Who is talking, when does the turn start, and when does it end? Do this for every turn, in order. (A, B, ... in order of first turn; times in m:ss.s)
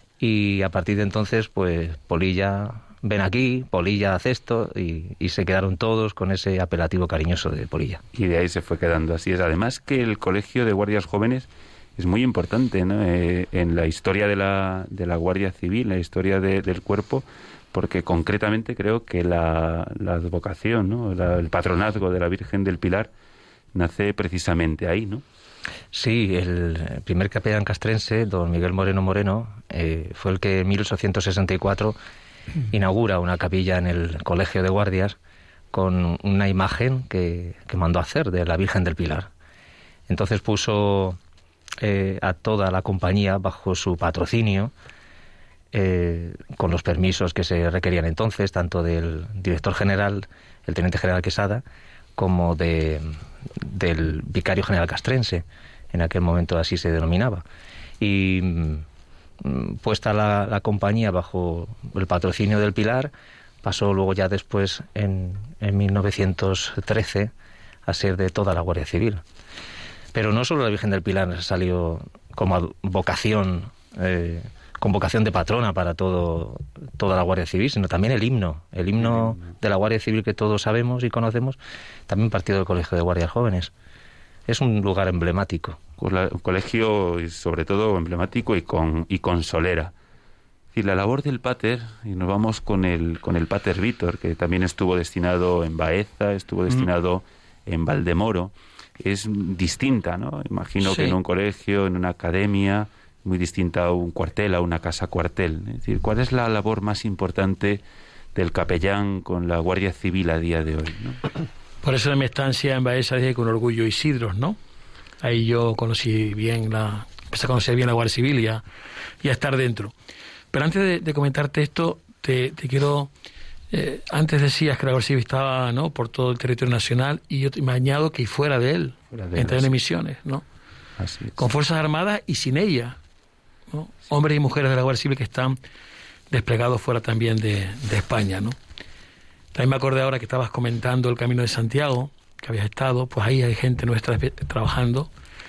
0:00.2-0:08.0 A
0:08.1-0:23.1 B
0:23.7-0:25.2 B
0:25.9-0:32.0 A
0:32.7-0:35.2 A
0:35.7-0:39.3 A
0:40.1-0:41.2 A
0:41.8-0:44.7 A
0:45.7-0:51.6 A
0:52.2-0:57.4 A
0:58.0-0:58.8 A
0:59.4-1:03.1 A
1:03.6-1:07.3 A
1:07.9-1:09.2 A
1:10.1-1:23.7 A
1:19.1-1:19.4 B
1:24.5-1:25.8 A
1:26.0-1:29.9 B
1:30.7-1:47.8 B
1:40.8-1:41.2 C
1:48.4-1:51.2 B
1:51.8-1:54.6 C
1:55.2-1:58.6 C
1:59.2-1:59.9 C
2:00.5-2:03.1 C
2:03.7-2:10.4 C
2:09.1-2:09.7 B
2:11.0-2:11.4 B
2:11.4-2:13.0 C
2:13.7-2:15.6 C
2:16.3-2:18.6 C
2:19.5-2:25.1 C